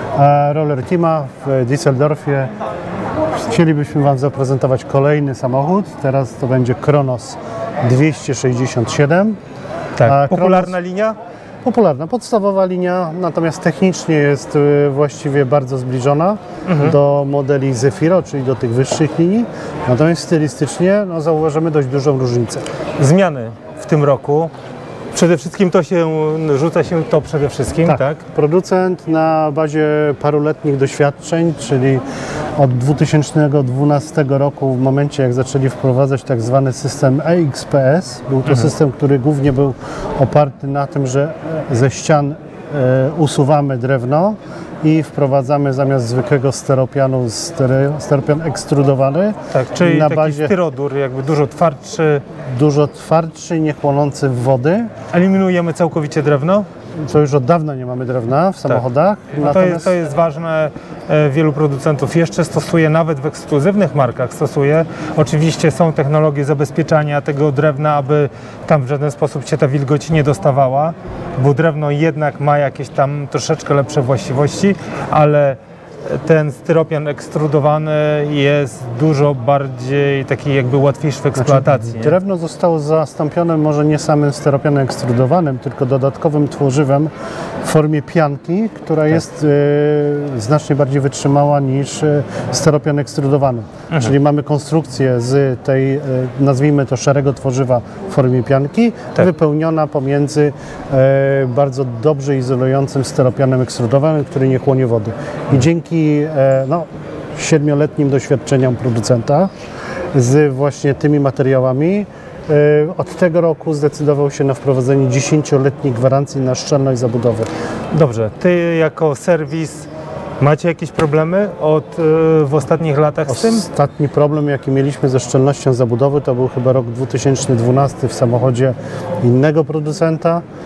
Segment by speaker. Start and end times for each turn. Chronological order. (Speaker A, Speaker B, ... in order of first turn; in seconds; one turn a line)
Speaker A: 0.1-2.5
Speaker A: 3.3-9.4
Speaker B: 10.0-11.2
Speaker A: 10.0-10.7
Speaker A: 11.6-22.6
Speaker B: 16.7-17.0
Speaker B: 23.0-24.5
Speaker B: 25.1-28.2
Speaker A: 27.9-32.0
Speaker A: 32.5-50.5
Speaker B: 49.5-52.2
Speaker A: 52.5-54.9
Speaker B: 55.1-56.7
Speaker A: 57.0-60.0
Speaker B: 59.3-82.1
Speaker A: 81.3-87.1
Speaker A: 87.6-109.5
Speaker A: 110.1-117.5
Speaker B: 117.9-119.9
Speaker B: 120.4-123.6
Speaker A: 123.3-130.4